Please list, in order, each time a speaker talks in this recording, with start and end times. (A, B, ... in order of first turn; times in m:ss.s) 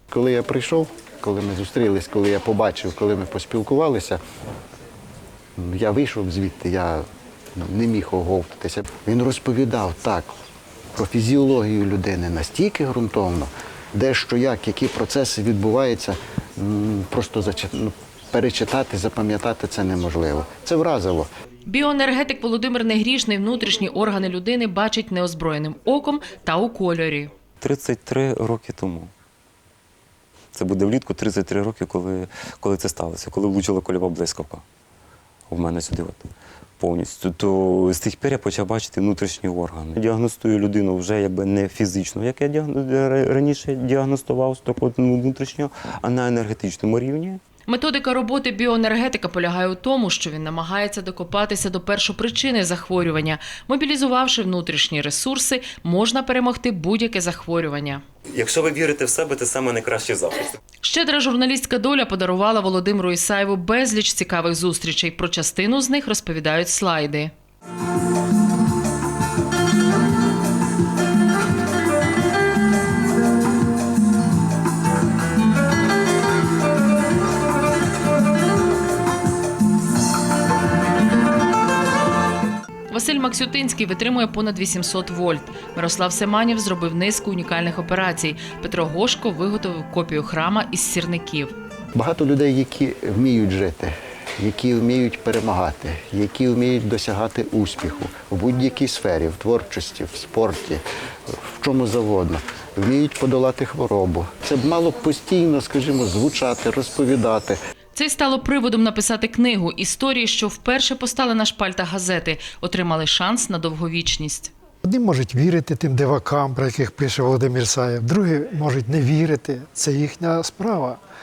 0:00.1-0:04.2 A
0:05.6-0:07.0 A
0:07.6-0:10.3 A
0:11.0-0:21.3 A
0:21.7-0:27.3 B
0:27.6-0:29.1 C
0:30.5-0:34.6 C
0:35.5-0:47.4 C
0:47.7-0:58.0 B
0:58.3-1:00.6 C
1:00.8-1:07.3 B
1:22.9-1:31.5 B
1:32.0-1:47.6 A
1:48.0-1:54.5 B
1:54.8-2:01.0 D